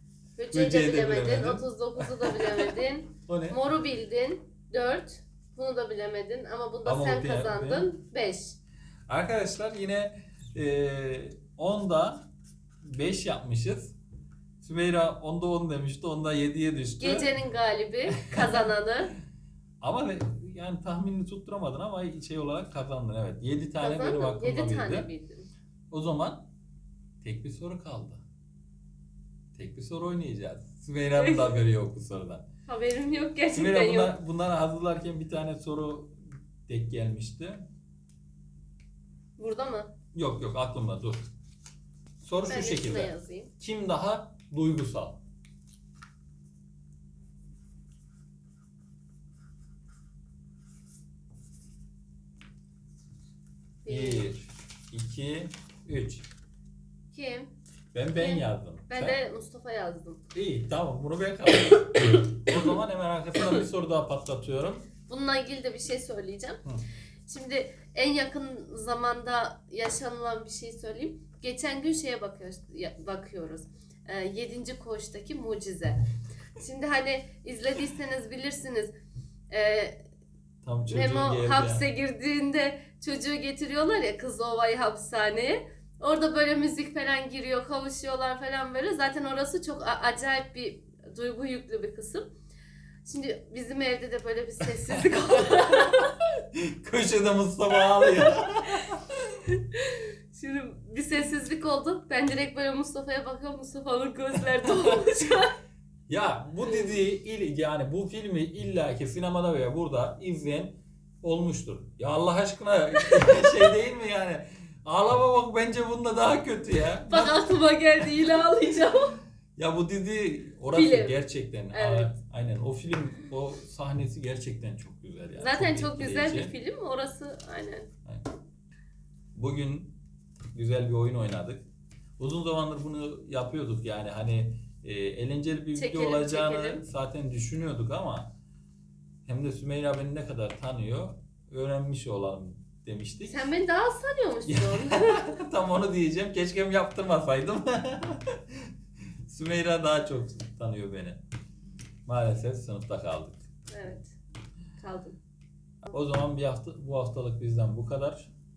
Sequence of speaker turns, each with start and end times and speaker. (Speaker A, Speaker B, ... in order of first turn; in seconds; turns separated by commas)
Speaker A: 0.4-8.6, Speaker B: 0.5-2.6, Speaker B: 3.3-3.6, Speaker B: 6.8-7.9, Speaker B: 9.1-12.2, Speaker B: 12.8-13.9, Speaker B: 14.6-17.4, Speaker A: 17.0-19.1, Speaker B: 18.2-18.7, Speaker B: 19.8-25.1, Speaker A: 23.8-25.5, Speaker B: 25.9-26.4, Speaker B: 27.2-28.2, Speaker B: 29.5-32.4, Speaker A: 31.1-31.6, Speaker A: 32.7-34.2, Speaker B: 33.5-37.6, Speaker A: 39.4-39.9, Speaker B: 40.1-41.2, Speaker B: 42.2-45.2, Speaker A: 42.5-43.5, Speaker A: 53.8-54.3, Speaker B: 53.9-56.3, Speaker A: 57.1-57.5, Speaker B: 57.9-59.2, Speaker A: 58.1-60.2, Speaker B: 60.3-64.9, Speaker A: 65.1-66.6, Speaker A: 67.3-76.0, Speaker A: 76.6-78.9, Speaker A: 79.5-80.0, Speaker B: 80.6-81.9, Speaker A: 80.9-92.3, Speaker A: 93.0-96.1, Speaker B: 95.0-99.2, Speaker A: 99.5-105.5, Speaker B: 104.6-105.1, Speaker B: 106.1-117.4, Speaker A: 113.0-113.7, Speaker A: 117.1-119.2, Speaker B: 118.0-118.5, Speaker B: 119.6-126.5, Speaker A: 120.7-121.2, Speaker A: 121.7-122.1, Speaker A: 125.4-127.9, Speaker B: 129.3-130.0, Speaker B: 130.5-131.6, Speaker B: 132.2-138.3, Speaker A: 135.7-136.8, Speaker B: 139.2-143.4, Speaker A: 143.3-145.4, Speaker B: 144.5-148.7, Speaker B: 149.3-151.2, Speaker B: 152.1-153.5, Speaker A: 153.7-154.2, Speaker A: 154.8-155.2, Speaker B: 155.8-158.3